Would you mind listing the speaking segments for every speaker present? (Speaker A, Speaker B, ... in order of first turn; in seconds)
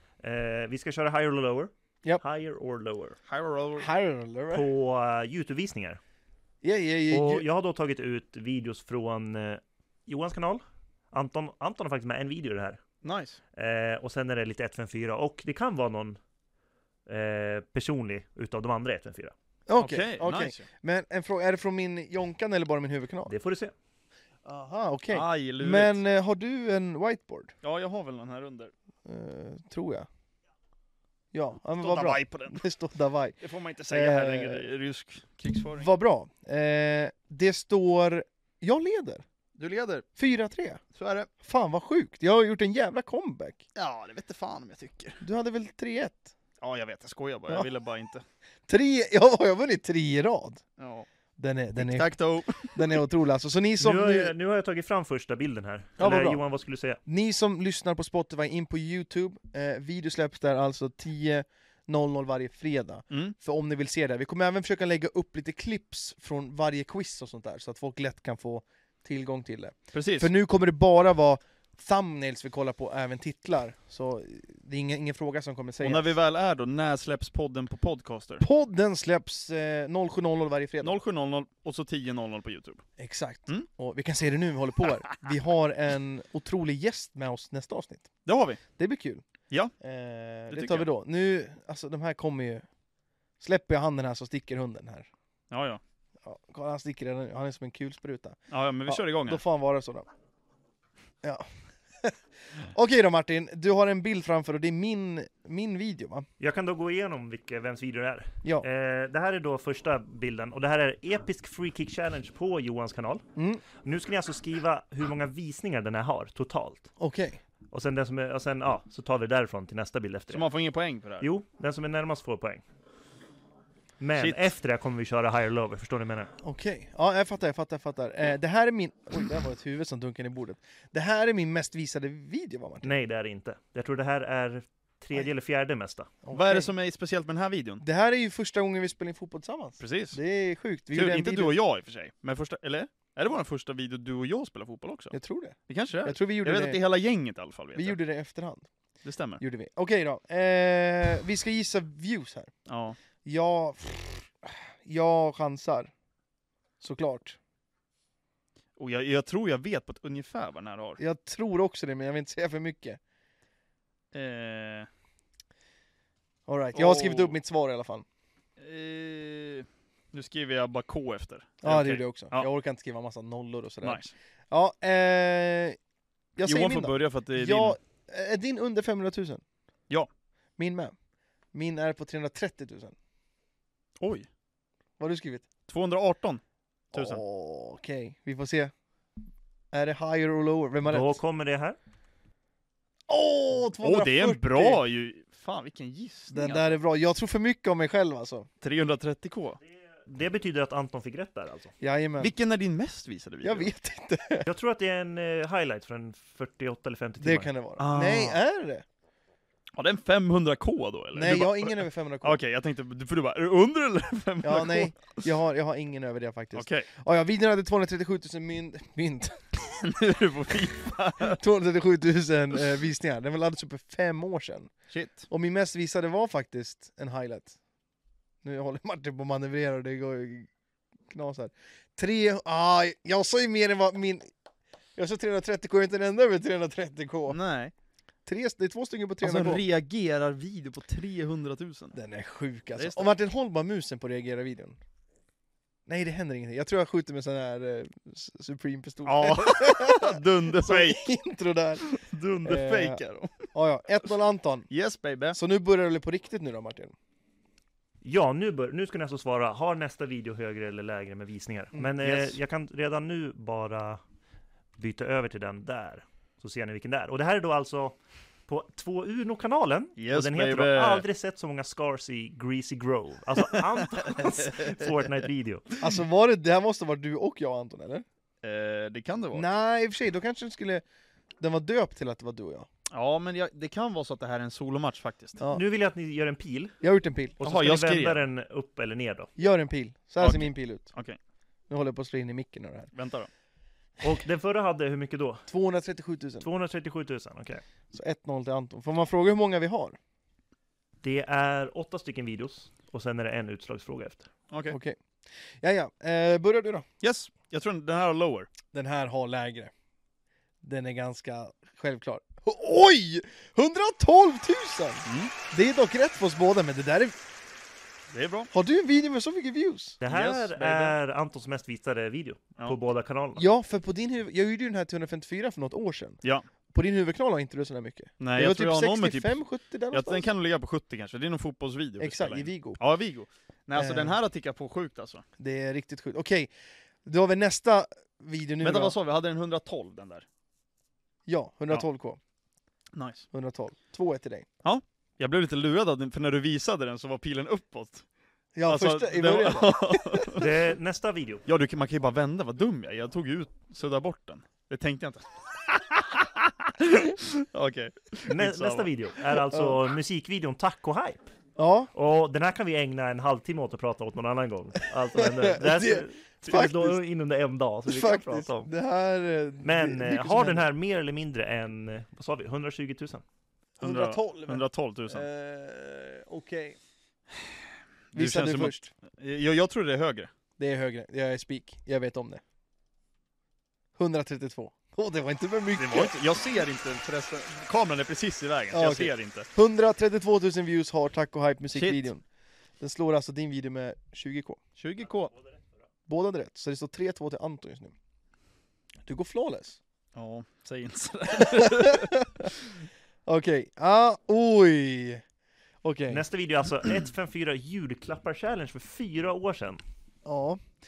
Speaker A: 0.2-3.2, 4.5-6.0, 7.1-12.8, 13.6-16.2, 17.1-19.3, 23.3-23.7, 53.8-57.0, 106.4-113.2, 113.8-116.9, 117.7-120.5, 121.2-122.6, 124.0-126.3, 132.8-136.1, 190.8-191.8, 200.0-201.7, 204.4-207.5, 258.0-264.0, 264.8-268.0, 268.5-275.7, 285.5-286.8, 287.4-289.3, 294.0-295.5, 296.4-297.6, 301.0-304.3, 320.0-323.4, 350.4-351.4, 358.3-361.3, 361.9-368.7, 369.6-373.2, 406.1-409.8
Speaker B: 3.3-3.9, 13.0-13.4, 19.8-20.6, 25.1-26.0, 27.6-28.7, 31.8-32.6, 33.4-35.9, 39.6-40.0, 40.9-41.3, 43.8-45.2, 46.6-48.2, 50.8-51.1, 51.7-53.0, 69.9-70.3, 75.8-78.4, 80.8-82.8, 88.2-88.6, 90.5-90.9, 95.5-95.8, 98.5-99.4, 120.3-121.3, 124.2-124.4, 136.3-137.8, 139.8-140.2, 140.9-145.2, 145.7-148.0, 149.0-149.4, 152.7-153.0, 158.8-161.0, 164.1-164.9, 166.7-167.3, 168.6-172.5, 173.8-174.1, 176.4-177.8, 184.0-184.3, 185.7-186.4, 186.9-187.2, 193.8-196.8, 198.6-199.6, 202.2-203.7, 207.8-208.4, 209.7-215.2, 216.5-216.9, 219.8-221.4, 224.9-225.3, 237.3-237.7, 239.2-241.9, 242.8-243.1, 249.0-251.1, 251.8-253.5, 254.7-255.4, 262.0-262.4, 270.0-271.0, 274.0-274.7, 278.4-279.5, 282.9-285.4, 287.4-288.2, 290.2-291.2, 292.9-293.3, 304.5-304.8, 307.0-308.5, 315.1-315.3, 318.1-318.5, 320.1-320.9, 328.2-329.4, 329.9-335.2, 338.6-340.2, 342.9-343.2, 344.6-348.0, 348.7-350.4, 351.4-358.9, 373.8-375.2, 378.1-380.3, 385.7-389.5, 391.7-392.1, 394.8-395.3, 400.1-402.7
Speaker C: 3.8-4.7, 6.6-7.4, 19.7-23.3, 24.4-27.5, 29.0-30.1, 31.3-33.4, 33.9-34.7, 35.8-39.2, 40.2-40.8, 41.4-43.6, 45.2-46.3, 48.7-50.6, 51.4-52.1, 52.7-54.3, 56.0-56.4, 57.0-76.1, 78.4-81.0, 83.0-88.1, 88.8-89.2, 89.8-92.6, 93.4-95.1, 96.2-100.1, 102.0-106.2, 113.3-113.6, 117.0-117.4, 126.4-132.9, 136.2-136.7, 137.8-141.5, 145.1-146.8, 147.7-148.7, 149.4-152.5, 153.2-155.9, 156.8-157.4, 161.0-163.0, 166.5-168.0, 171.6-175.8, 176.4-179.4, 180.6-180.9, 181.5-182.9, 185.0-185.4, 186.9-188.7, 189.7-191.2, 193.1-194.8, 196.3-198.5, 201.8-202.3, 203.4-204.5, 207.2-208.8, 211.1-212.4, 214.4-219.4, 221.2-224.7, 225.3-227.6, 228.4-230.5, 231.1-234.3, 234.9-237.4, 238.2-239.6, 241.9-244.8, 245.9-251.8, 252.4-253.0, 253.5-254.7, 255.3-256.9, 275.8-278.0, 279.3-280.8, 281.4-282.7, 286.8-287.4, 289.4-290.9, 291.7-292.9, 295.5-296.5, 297.9-300.0, 304.7-305.0, 305.6-306.9, 308.7-309.7, 310.6-317.2, 318.5-320.0, 323.4-326.2, 326.7-330.3, 332.0-332.8, 333.8-334.2, 335.4-336.5, 337.0-338.9, 341.2-342.2, 343.3-344.5, 348.5-350.4, 359.5-359.8, 361.6-361.9, 365.1-367.0, 367.9-370.6, 373.8-376.8, 378.1-378.9, 380.6-382.4, 383.9-386.2, 388.7-392.2, 392.8-394.6, 396.1-397.9, 399.0-399.8, 401.3-402.5, 403.2-405.2, 405.8-406.2, 410.2-410.6